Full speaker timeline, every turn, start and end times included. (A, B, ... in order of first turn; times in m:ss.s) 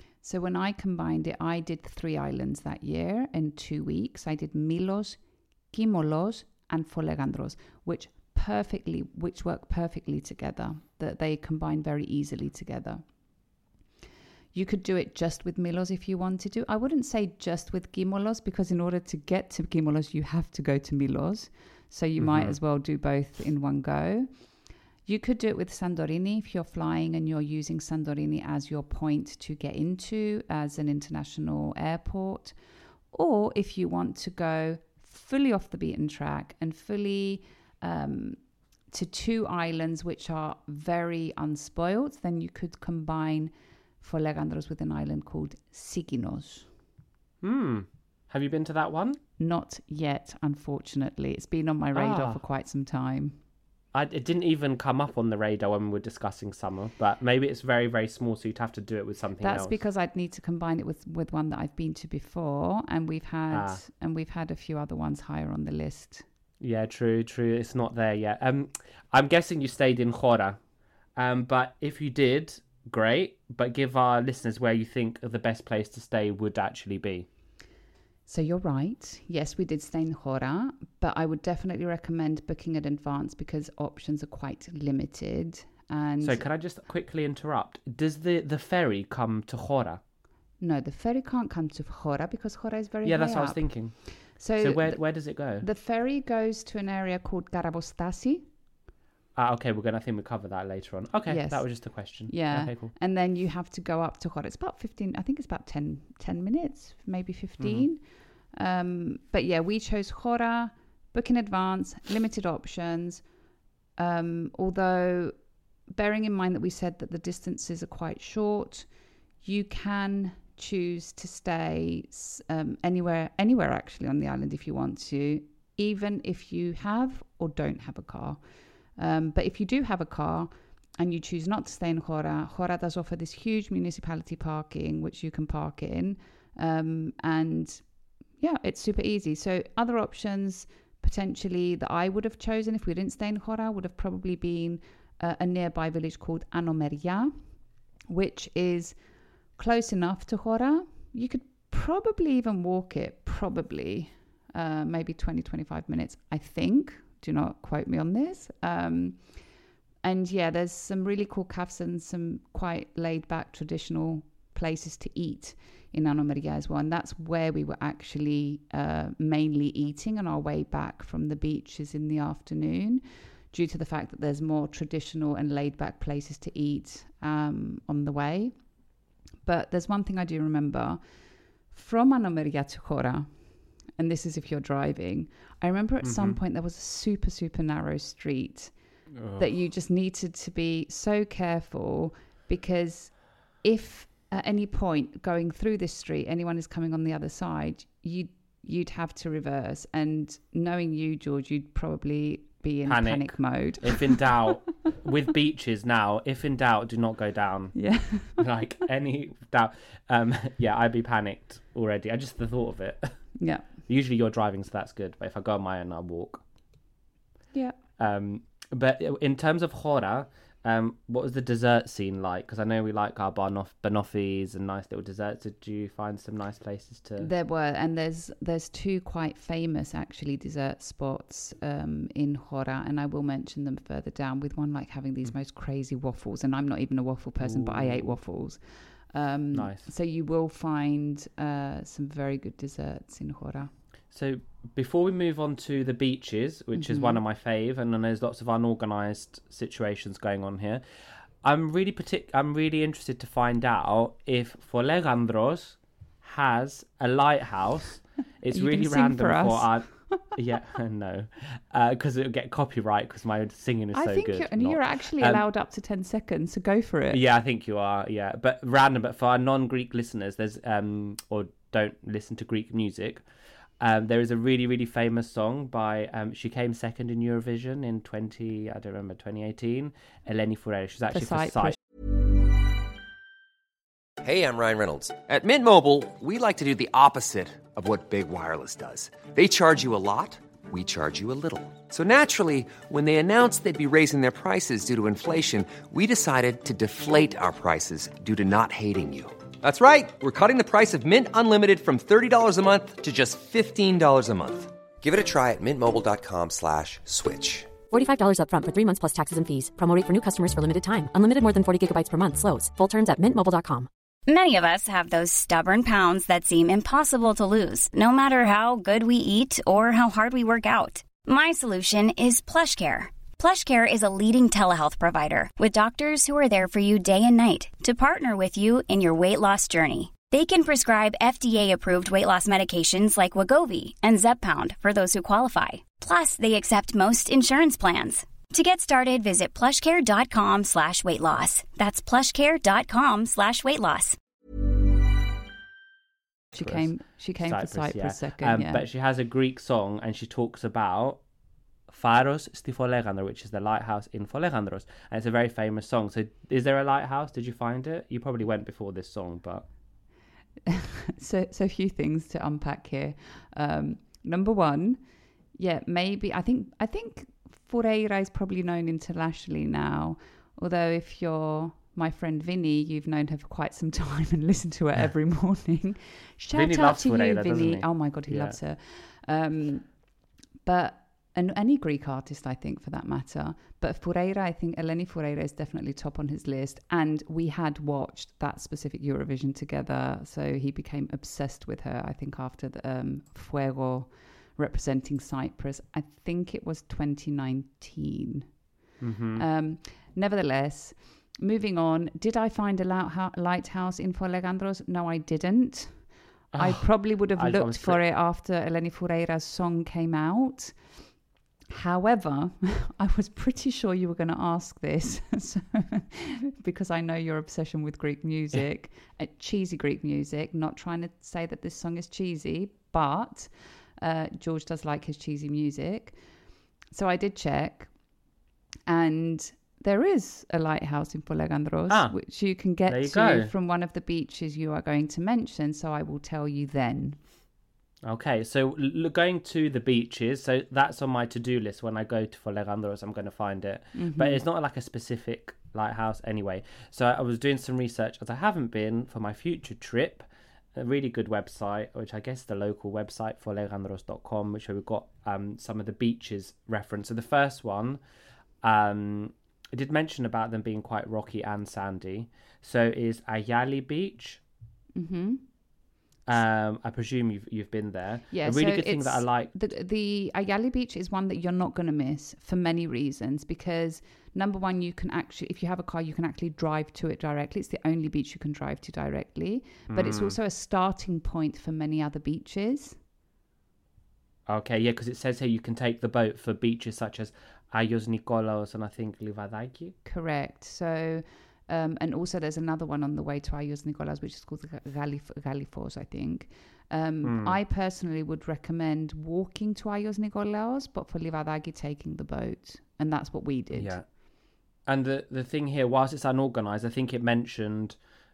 0:00.2-0:13.0 A
0:14.5-0:32.6 A
0:22.2-0:22.6 B
0:33.1-0:38.4 A
0:38.9-0:46.7 A
0:47.4-0:49.2 B
0:49.4-0:53.4 A
0:52.0-0:52.4 B
0:53.9-0:59.8 B
0:59.4-1:06.2 A
1:03.5-1:03.8 B
1:06.6-1:10.6 B
1:11.2-1:17.3 B
1:18.3-1:26.5 A
1:26.2-1:30.0 B
1:30.6-1:38.5 A
1:33.0-1:35.7 B
1:39.4-1:43.0 B
1:41.3-1:53.2 A
1:47.6-1:47.9 B
1:54.0-1:55.4 A
1:55.9-1:58.9 A
1:59.4-2:17.8 A
2:18.4-2:27.4 A
2:28.1-2:29.0 A
2:29.6-2:39.4 A
2:40.0-2:58.8 A
2:59.4-3:08.8 A
3:06.0-3:06.4 B
3:09.2-3:09.5 B
3:09.4-3:24.2 A
3:22.8-3:33.3 B
3:27.8-3:28.4 A
3:33.4-3:33.7 A
3:33.9-3:36.4 B
3:38.0-3:47.3 B
3:47.2-4:03.7 A
3:57.4-3:58.1 B
3:59.5-3:59.9 B
4:04.1-4:10.8 B
4:06.8-4:07.2 A
4:11.4-4:25.4 B
4:18.5-4:20.3 A
4:23.9-4:27.2 A
4:27.1-4:33.2 B
4:33.8-4:41.8 B
4:41.1-4:41.8 A
4:44.2-5:07.8 C
5:07.9-5:13.9 D
5:14.3-5:44.2 E
5:46.5-5:48.8 A
5:46.6-5:51.2 B
5:51.9-5:59.7 B
6:00.7-6:05.0 A
6:05.6-6:19.9 A
6:16.5-6:18.6 B
6:20.6-6:38.5 A
6:39.0-6:39.4 B
6:39.4-6:50.8 A
6:46.5-6:48.0 B
6:51.7-7:06.2 A
7:06.9-7:07.9 A
7:08.9-7:17.2 A
7:11.9-7:13.5 B
7:18.0-7:38.0 B
7:24.0-7:24.4 A
7:38.6-7:44.4 B
7:45.0-7:45.4 A
7:46.3-7:49.5 B
7:48.3-8:03.0 A
7:59.9-8:00.4 B
8:04.5-8:10.0 B
8:10.0-8:24.0 A
8:17.2-8:17.6 B
8:23.7-8:24.0 B
8:24.9-8:28.0 B